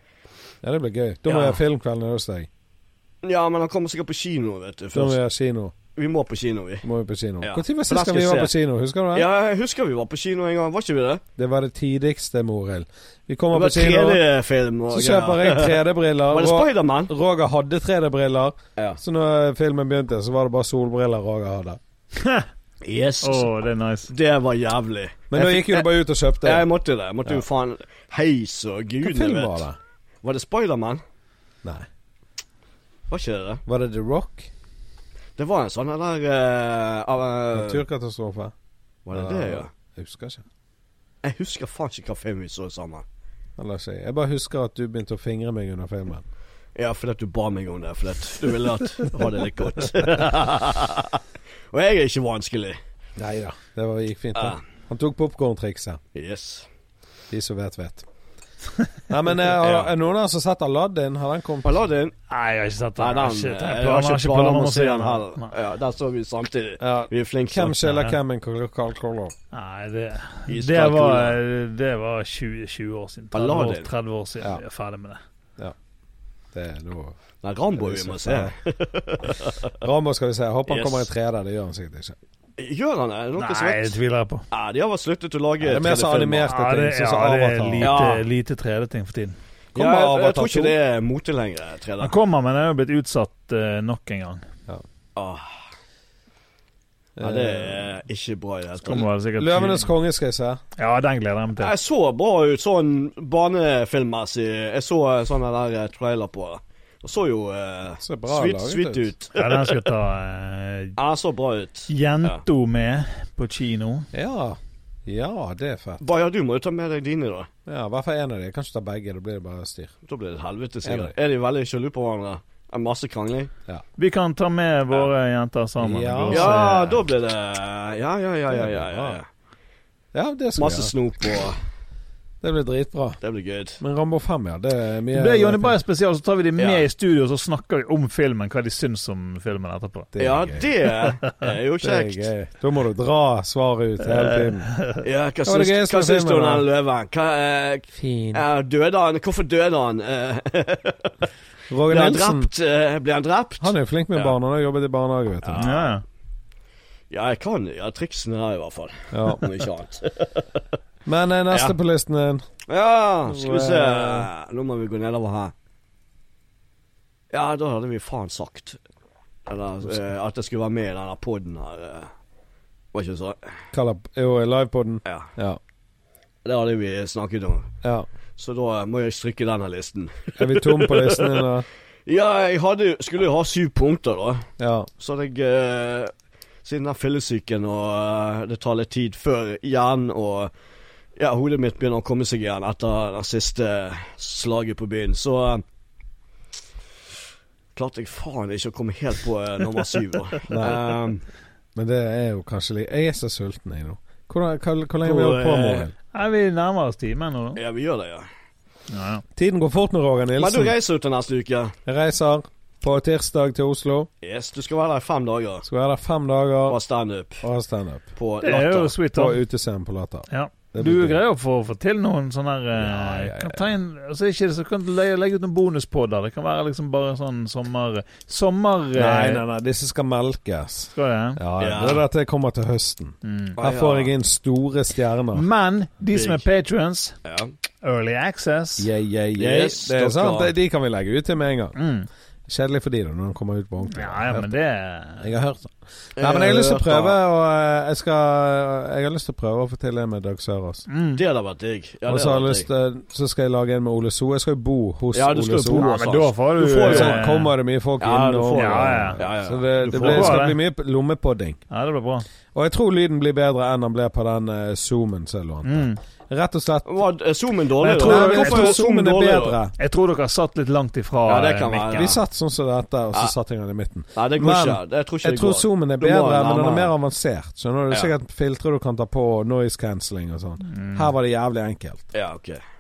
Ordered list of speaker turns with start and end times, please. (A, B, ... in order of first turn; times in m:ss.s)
0:00.6-0:02.5 A
0:01.2-0:01.6 B
0:03.2-0:05.2 B
0:04.9-0:05.7 A
0:05.9-0:06.8 B
0:06.8-0:09.3 A
0:07.4-0:08.5 B
0:09.1-0:11.2 B
0:11.4-0:14.2 A
0:13.5-0:17.1 B
0:14.9-0:21.8 A
0:22.1-0:22.5 C
0:22.8-0:23.5 B
0:23.2-0:24.1 C
0:24.1-0:25.9 B
0:25.3-0:26.6 A
0:26.4-0:29.6 B
0:29.0-0:29.8 A
0:30.2-0:31.0 B
0:33.1-0:33.6 B
0:33.6-0:34.5 A
0:35.4-0:37.8 B
0:37.5-0:38.5 A
0:39.0-0:39.7 B
0:39.1-0:40.4 A
0:41.2-0:43.0 B
0:43.6-0:46.2 A
0:46.8-0:51.2 B
0:51.7-0:52.8 B
0:53.2-0:56.0 A
0:54.4-0:54.6 B
0:56.1-0:56.7 B
0:57.3-0:58.1 A
0:59.1-1:01.8 A
0:59.5-0:59.9 B
1:01.6-1:02.1 B
1:02.3-1:05.5 C
1:03.0-1:07.8 B
1:06.8-1:09.3 A
1:07.8-1:08.2 C
1:09.5-1:15.2 C
1:10.5-1:11.4 B
1:13.3-1:13.9 B
1:16.5-1:17.2 A
1:17.4-1:19.7 B
1:17.8-1:18.5 A
1:19.8-1:22.2 A
1:20.7-1:21.0 B
1:22.6-1:24.0 B
1:23.4-1:24.4 C
1:24.5-1:26.5 B
1:25.6-1:28.0 A
1:26.5-1:29.4 C
1:27.8-1:28.2 B
1:29.7-1:30.7 A
1:29.7-1:32.1 B
1:32.0-1:34.4 C
1:35.2-1:35.6 B
1:37.2-1:37.9 A
1:37.2-1:39.1 B
1:38.8-1:39.9 C
1:39.4-1:40.6 A
1:40.8-1:41.7 C
1:41.6-1:49.6 B
1:48.0-1:49.1 A
1:49.3-1:51.0 C
1:51.0-1:52.4 B
1:51.9-1:54.1 C
1:54.1-1:56.0 A
1:56.0-1:57.5 B
1:57.6-1:59.9 A
2:00.1-2:03.5 B
2:00.8-2:01.1 A
2:04.0-2:06.7 C
2:05.8-2:07.0 A
2:06.3-2:09.3 B
2:08.5-2:09.2 A
2:10.1-2:10.9 A
2:10.6-2:11.6 B
2:12.4-2:13.2 A
2:13.2-2:13.8 B
2:13.8-2:15.7 A
2:15.1-2:20.1 C
2:16.6-2:16.8 B
2:20.1-2:20.7 A
2:20.2-2:22.3 B
2:21.8-2:24.8 A
2:25.0-2:31.2 B
2:25.4-2:26.6 A
2:27.9-2:28.4 A
2:31.7-2:32.5 A
2:31.9-2:34.3 B
2:33.6-2:35.7 A
2:35.4-2:35.9 B
2:35.6-2:36.0 C
2:37.1-2:40.6 B
2:39.1-2:39.5 A
2:41.0-2:42.4 A
2:41.5-2:41.7 B
2:42.7-2:45.5 B
2:43.3-2:44.3 A
2:47.3-2:48.8 B
2:49.5-2:52.1 B
2:52.9-2:53.6 B
2:53.7-2:55.6 A
2:55.0-2:55.3 B
2:56.4-2:57.7 B
2:58.4-3:01.5 B
3:00.4-3:01.6 A
3:02.0-3:04.5 B
3:04.6-3:04.9 A
3:05.0-3:06.1 B
3:06.6-3:10.5 B
3:11.2-3:15.6 B
3:17.7-3:21.2 B
3:20.5-3:20.8 A
3:21.7-3:25.9 A
3:25.0-3:25.9 B
3:26.1-3:27.6 C
3:27.6-3:28.3 B
3:28.9-3:29.2 C
3:29.4-3:30.7 A
3:30.4-3:31.7 B
3:31.8-3:34.1 A
3:34.2-3:35.7 B
3:35.6-3:36.8 A
3:36.7-3:37.4 B
3:37.4-3:38.1 A
3:38.2-3:39.0 B
3:38.4-3:39.4 C
3:39.1-3:41.2 A
3:40.3-3:49.4 C
3:42.8-3:43.7 A
3:49.0-3:55.4 A
3:50.9-3:51.4 C
3:51.6-3:52.0 B
3:53.2-3:53.6 C
3:53.6-3:54.1 B
3:55.3-3:57.2 C
3:56.1-3:56.4 B
3:57.2-3:57.5 B
3:57.8-3:58.9 C
3:58.8-4:01.8 A
3:59.4-4:00.5 B
4:01.8-4:02.1 C
4:02.5-4:04.5 A
4:03.9-4:05.3 C
4:05.2-4:10.8 A
4:06.2-4:07.2 B
4:10.9-4:11.2 C
4:11.1-4:12.7 B
4:12.1-4:15.9 A
4:15.1-4:17.2 B
4:15.8-4:17.5 C
4:16.8-4:21.6 A
4:18.0-4:20.4 B
4:18.5-4:19.2 C
4:19.9-4:20.6 C
4:21.7-4:22.2 C
4:22.5-4:26.9 A
4:25.6-4:26.0 C
4:26.8-4:29.6 B
4:27.8-4:29.7 A
4:27.8-4:28.8 C
4:29.8-4:32.2 C
4:31.2-4:32.2 B
4:31.9-4:42.0 A
4:34.1-4:36.9 B
4:40.7-4:41.1 C
4:42.1-4:42.6 B